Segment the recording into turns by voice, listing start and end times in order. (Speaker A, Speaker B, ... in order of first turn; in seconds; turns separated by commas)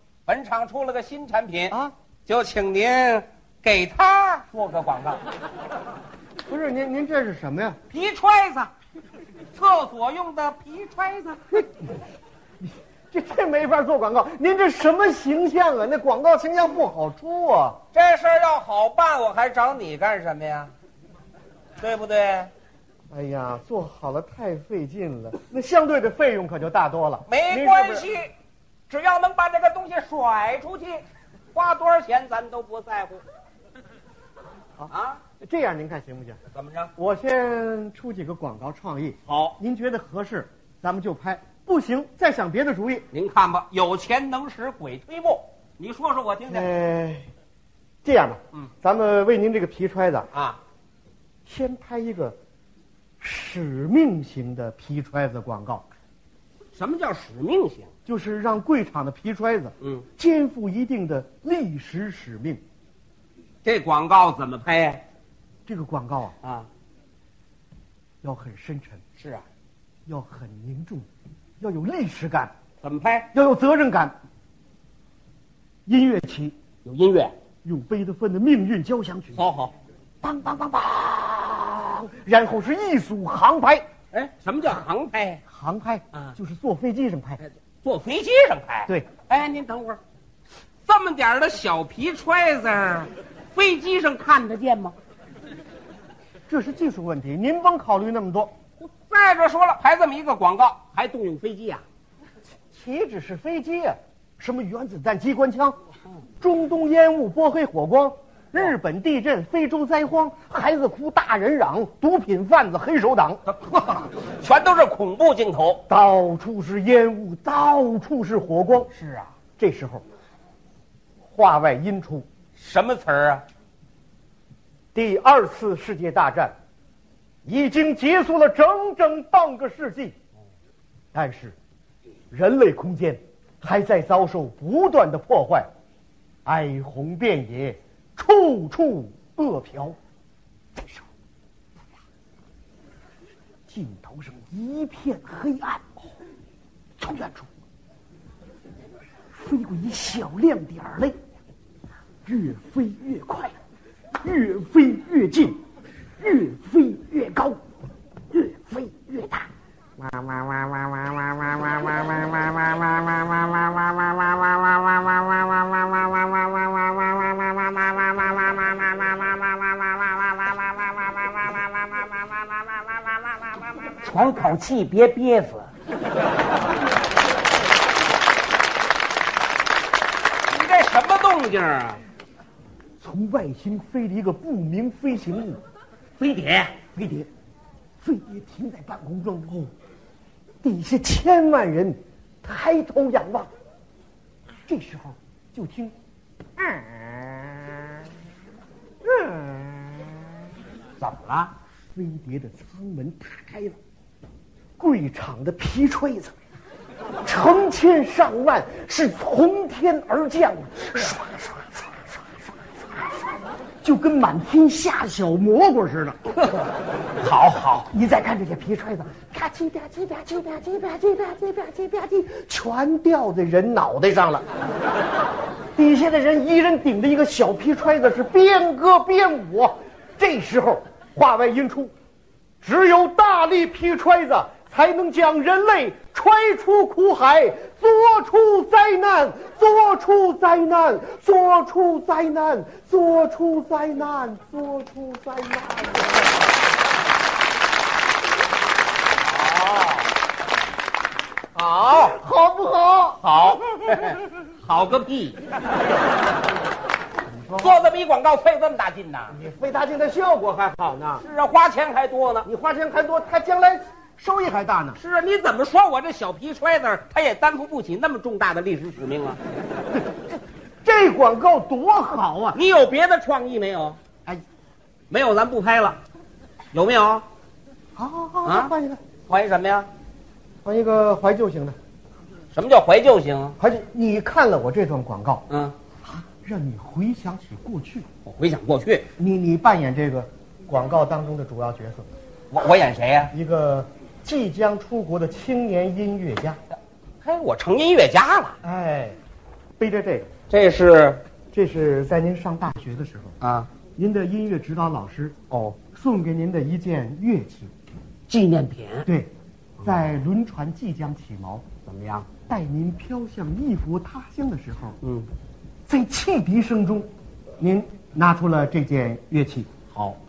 Speaker A: 0.3-5.2, Speaker B: 6.5-7.8, Speaker A: 7.9-8.7, Speaker A: 9.5-11.6, Speaker B: 11.6-11.9, Speaker B: 12.6-17.8, Speaker A: 17.9-20.7, Speaker A: 21.8-22.5, Speaker B: 23.1-28.1, Speaker A: 27.3-28.3, Speaker A: 28.9-33.2, Speaker B: 34.8-36.4, Speaker A: 34.9-35.2, Speaker A: 36.5-36.9, Speaker B: 37.0-43.1, Speaker A: 39.3-39.6, Speaker A: 43.1-46.7, Speaker B: 46.5-47.3, Speaker B: 48.0-50.3, Speaker A: 50.3-50.6, Speaker B: 51.5-52.4, Speaker B: 53.2-55.9, Speaker A: 56.8-57.9, Speaker B: 58.1-62.6, Speaker A: 63.6-65.0, Speaker B: 65.7-66.4, Speaker A: 66.4-66.7, Speaker B: 68.2-69.0, Speaker A: 69.2-69.5, Speaker B: 70.1-71.1, Speaker B: 71.6-72.5, Speaker A: 72.8-73.3, Speaker B: 73.3-74.1, Speaker B: 75.9-76.5, Speaker A: 76.8-77.3, Speaker B: 77.6-79.4, Speaker A: 79.3-79.7, Speaker B: 80.2-83.9, Speaker A: 84.1-85.4, Speaker B: 85.5-87.4, Speaker A: 87.4-90.0, Speaker A: 90.8-95.0, Speaker B: 96.5-98.5, Speaker A: 98.8-101.8, Speaker B: 102.7-105.8, Speaker B: 106.4-113.4, Speaker A: 113.5-115.8, Speaker B: 115.9-118.9, Speaker A: 118.9-119.3, Speaker B: 119.6-120.0, Speaker B: 121.3-122.3, Speaker A: 122.6-123.4, Speaker B: 125.0-126.5, Speaker B: 127.5-130.2, Speaker B: 131.1-131.6, Speaker B: 132.3-135.7, Speaker B: 136.4-140.0, Speaker B: 140.8-141.1, Speaker B: 143.7-146.1, Speaker B: 147.0-147.5, Speaker B: 149.3-151.2, Speaker B: 152.2-153.6, Speaker B: 154.2-155.6, Speaker B: 156.2-157.6, Speaker B: 158.3-159.5, Speaker A: 174.0-175.7, Speaker A: 180.5-182.0, Speaker B: 183.0-185.6, Speaker A: 186.2-186.8, Speaker B: 186.9-187.3, Speaker B: 188.0-189.7, Speaker B: 190.6-193.5, Speaker B: 194.7-195.9, Speaker B: 196.6-197.8, Speaker B: 199.0-200.1, Speaker A: 201.0-201.5, Speaker B: 201.9-203.8, Speaker B: 204.8-206.3, Speaker B: 207.2-212.1, Speaker B: 213.8-216.2, Speaker A: 216.4-216.7, Speaker A: 217.2-217.9, Speaker B: 217.9-224.4, Speaker B: 225.8-231.9, Speaker B: 232.6-246.3, Speaker A: 249.2-250.1, Speaker A: 251.6-252.2, Speaker B: 251.9-253.2, Speaker A: 253.2-255.5, Speaker B: 257.3-257.8, Speaker A: 257.6-259.4, Speaker B: 259.3-261.2, Speaker A: 261.2-262.5, Speaker B: 262.4-265.0, Speaker A: 265.0-269.4, Speaker B: 270.8-272.6, Speaker A: 272.6-274.0, Speaker A: 275.1-276.0, Speaker A: 276.7-277.2, Speaker B: 277.9-279.0, Speaker A: 278.4-278.7, Speaker A: 279.3-279.9, Speaker B: 280.6-281.8, Speaker A: 282.5-283.6, Speaker B: 283.6-285.4, Speaker A: 285.5-285.8, Speaker B: 286.1-288.1, Speaker A: 288.3-289.1, Speaker B: 289.2-292.1, Speaker A: 292.5-293.3, Speaker B: 293.3-296.6, Speaker A: 297.2-298.6, Speaker B: 298.6-299.2, Speaker B: 299.8-300.3, Speaker A: 300.5-301.2, Speaker B: 301.5-303.4, Speaker A: 303.4-303.7, Speaker B: 304.0-305.4, Speaker A: 305.5-305.8, Speaker B: 305.9-307.7, Speaker A: 308.3-309.1, Speaker B: 309.1-309.3, Speaker B: 309.8-311.7, Speaker A: 311.9-312.3, Speaker B: 312.5-315.0, Speaker A: 315.0-315.3, Speaker B: 315.9-317.1, Speaker B: 317.6-319.7